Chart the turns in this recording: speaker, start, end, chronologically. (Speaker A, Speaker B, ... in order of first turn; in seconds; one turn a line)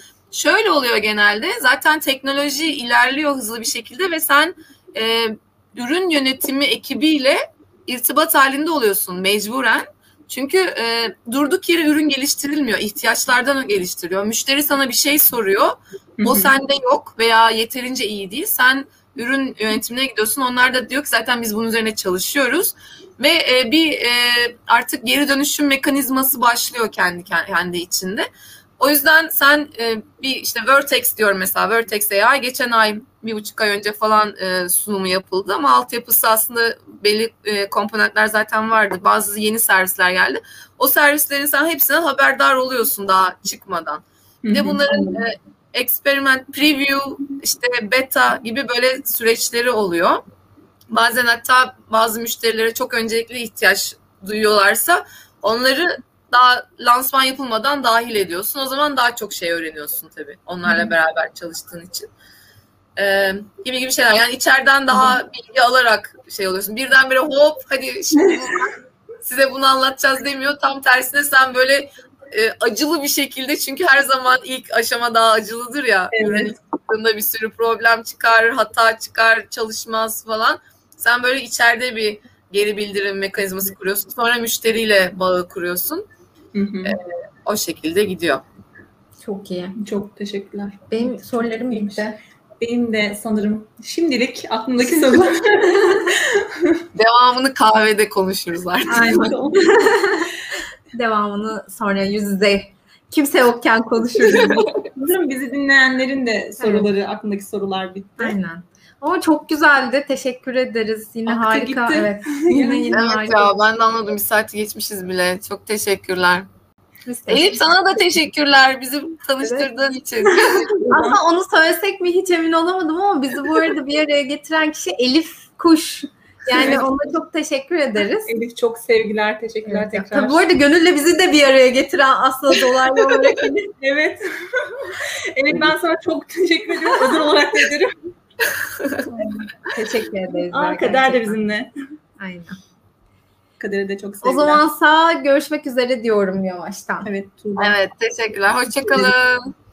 Speaker A: 0.3-50.2
Speaker B: 16.2-16.5
Speaker B: 44.4-45.2
Speaker A: 50.9-62.1
Speaker B: 60.6-60.9
Speaker A: 63.0-86.1
Speaker B: 68.2-68.5
Speaker B: 76.1-76.5
Speaker B: 86.5-87.0
Speaker A: 86.8-88.4
Speaker C: 89.2-89.8
Speaker B: 89.8-92.1
Speaker C: 90.9-92.2
Speaker B: 92.6-96.8
Speaker A: 97.0-99.3
Speaker B: 98.9-99.8
Speaker C: 99.1-100.3
Speaker C: 100.9-104.7
Speaker B: 104.8-108.3
Speaker C: 106.6-106.9
Speaker C: 108.2-113.5
Speaker B: 111.3-113.0
Speaker A: 112.9-116.5
Speaker C: 117.1-117.8
Speaker A: 117.3-120.8
Speaker B: 120.3-121.2
Speaker C: 120.9-128.3
Speaker B: 126.5-126.9
Speaker B: 128.3-130.4
Speaker C: 129.7-133.6
Speaker B: 133.0-137.9
Speaker C: 139.2-141.4
Speaker B: 140.5-141.7
Speaker C: 142.2-142.6
Speaker B: 143.6-144.6
Speaker C: 144.2-147.1
Speaker B: 147.1-147.8
Speaker A: 147.6-149.5